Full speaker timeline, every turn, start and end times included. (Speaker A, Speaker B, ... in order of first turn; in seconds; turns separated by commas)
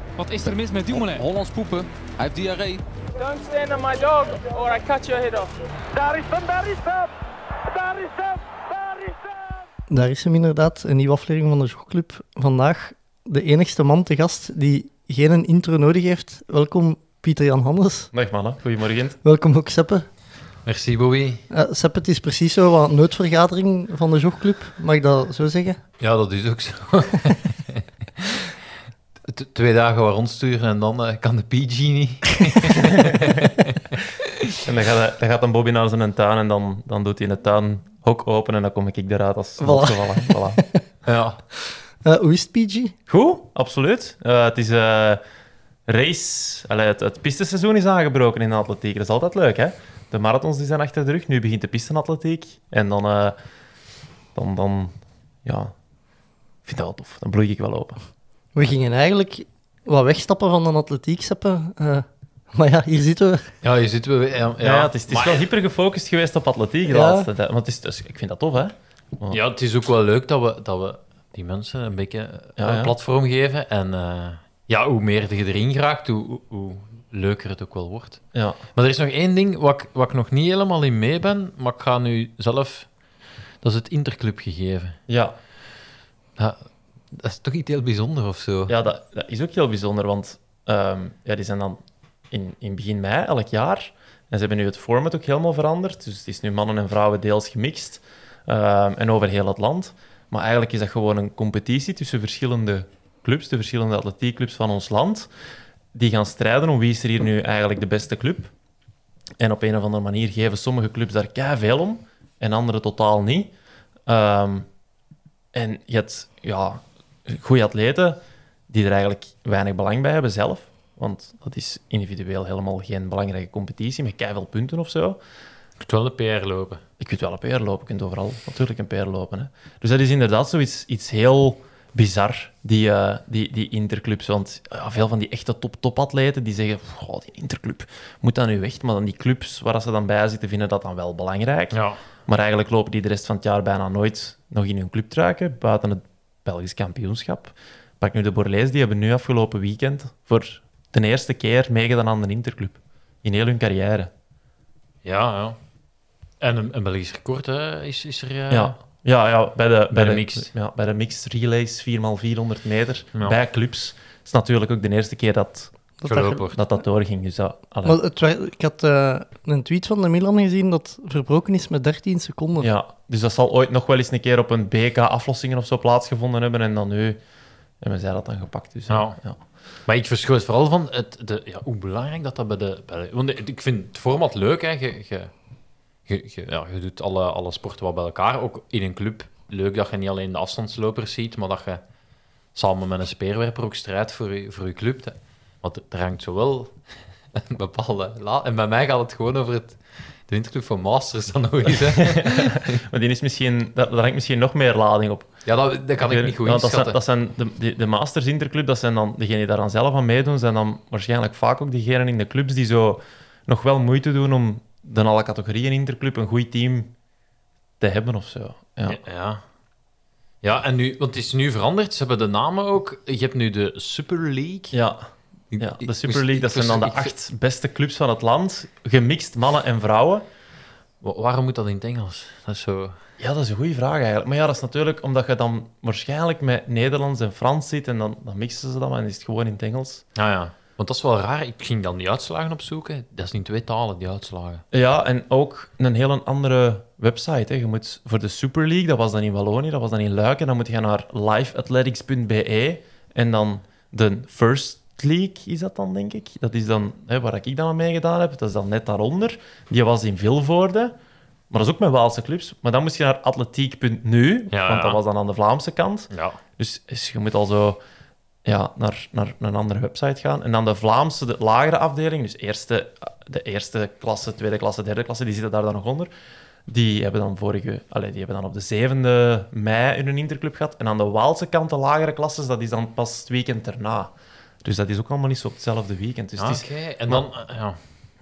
Speaker A: 0.2-2.8, Speaker B: 3.2-5.5, Speaker C: 5.9-7.1, Speaker C: 7.7-9.4, Speaker D: 9.9-18.1, Speaker E: 18.1-19.2, Speaker D: 19.2-20.1, Speaker F: 20.7-21.4, Speaker D: 21.5-25.8, Speaker F: 26.0-28.5, Speaker F: 29.3-34.0, Speaker E: 34.6-40.6, Speaker D: 39.6-40.8, Speaker F: 41.1-41.4, Speaker D: 42.0-42.9, Speaker E: 43.1-45.2, Speaker E: 45.9-53.4, Speaker E: 54.4-54.9, Speaker E: 55.5-55.7, Speaker E: 56.6-58.0, Speaker D: 58.5-63.5, Speaker F: 63.6-65.5, Speaker E: 64.6-69.4, Speaker D: 66.9-67.3, Speaker F: 69.3-82.9, Speaker E: 72.6-73.0, Speaker F: 83.6-85.0, Speaker E: 85.1-85.3, Speaker F: 86.4-88.8, Speaker E: 88.7-105.3, Speaker E: 105.9-108.5, Speaker E: 109.4-113.5, Speaker E: 114.1-114.7, Speaker E: 115.5-125.2, Speaker F: 125.8-126.8, Speaker E: 127.0-154.1, Speaker F: 141.7-142.0, Speaker F: 155.0-155.6, Speaker F: 156.4-158.8, Speaker E: 158.5-165.8, Speaker F: 159.9-160.5, Speaker D: 166.0-166.4, Speaker F: 166.0-166.6, Speaker E: 166.5-168.0, Speaker D: 167.8-172.7, Speaker E: 172.6-177.2, Speaker E: 177.8-179.4, Speaker F: 178.9-179.2, Speaker F: 179.9-185.3, Speaker F: 186.1-191.8, Speaker F: 192.5-196.8, Speaker F: 197.3-202.8, Speaker E: 202.1-205.4, Speaker F: 205.4-207.0, Speaker E: 206.0-216.9, Speaker E: 217.8-219.0, Speaker F: 218.9-219.4, Speaker F: 220.4-224.8, Speaker E: 224.7-225.0, Speaker F: 225.5-227.1, Speaker E: 225.6-230.2, Speaker F: 231.0-233.0, Speaker E: 233.2-240.0, Speaker F: 240.2-244.6, Speaker E: 244.7-260.9, Speaker E: 261.5-267.8, Speaker F: 264.5-265.0, Speaker F: 266.1-266.4, Speaker E: 268.4-276.1, Speaker E: 276.7-287.3, Speaker F: 286.4-287.8